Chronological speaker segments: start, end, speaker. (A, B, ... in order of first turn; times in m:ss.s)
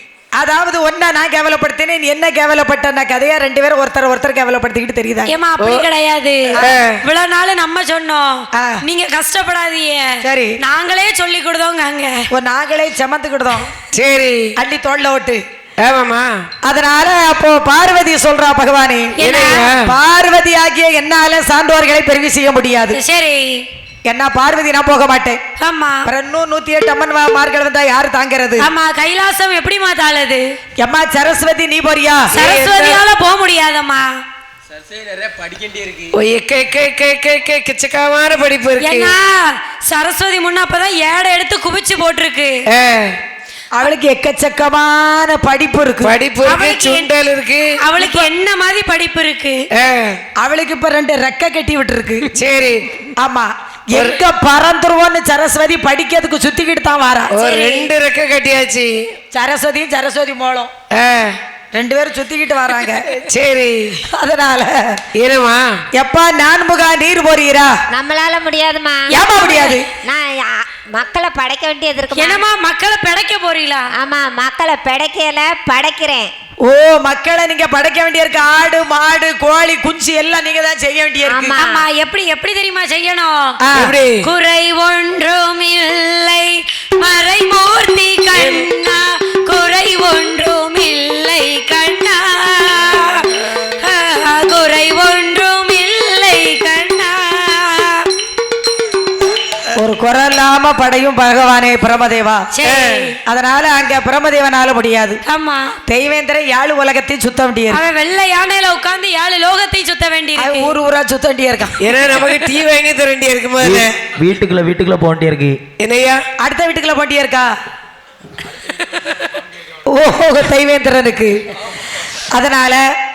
0:00.4-0:05.3 A
0:05.3-0:12.2 B
0:05.6-0:05.9 C
0:06.6-0:07.0 C
0:08.6-0:08.8 A
0:10.2-0:10.6 A
0:12.3-0:13.7 A
0:13.9-0:14.5 C
0:14.6-0:15.4 A
0:15.8-0:16.4 C
0:16.6-0:19.2 A
0:19.2-0:19.7 B
0:19.2-0:19.9 C
0:19.8-0:23.0 A
0:22.9-0:23.6 B
0:24.1-0:25.4 A
0:25.6-0:26.1 B
0:26.1-0:28.7 A
0:28.6-0:30.4 B
0:30.8-0:32.3 A
0:32.3-0:34.1 B
0:32.3-0:33.0 C
0:36.1-0:39.1 C
0:38.8-0:42.6 B
0:42.7-0:43.2 C
0:43.8-0:46.2 A
0:46.0-0:47.7 C
0:46.5-0:47.1 B
0:47.8-0:49.6 B
0:48.0-0:48.3 A
0:49.7-0:50.2 C
0:50.4-0:52.3 A
0:52.3-0:52.8 C
0:53.2-0:57.3 A
0:53.9-0:54.2 C
0:57.3-0:59.0 C
0:57.4-0:57.9 B
0:59.3-1:00.7 A
1:00.9-1:01.4 C
1:01.7-1:03.2 A
1:03.2-1:04.0 C
1:04.1-1:05.0 A
1:05.2-1:05.8 C
1:06.0-1:07.7 A
1:07.9-1:12.4 D
1:09.1-1:09.9 A
1:12.2-1:13.9 B
1:14.0-1:16.3 D
1:16.6-1:21.5 A
1:21.2-1:21.8 D
1:21.6-1:23.5 B
1:23.6-1:23.9 A
1:23.8-1:24.2 C
1:24.2-1:33.3 B
1:28.4-1:28.7 C
1:33.8-1:38.1 B
1:39.7-1:42.5 A
1:42.5-1:43.1 B
1:42.7-1:43.1 C
1:43.3-1:45.2 A
1:45.3-1:45.8 B
1:45.9-1:47.8 A
1:47.7-1:50.7 B
1:50.4-1:51.8 A
1:51.8-1:54.0 C
1:53.6-1:55.6 E
1:55.8-1:56.2 C
1:56.4-1:57.5 A
1:59.9-2:01.4 A
2:02.3-2:02.8 A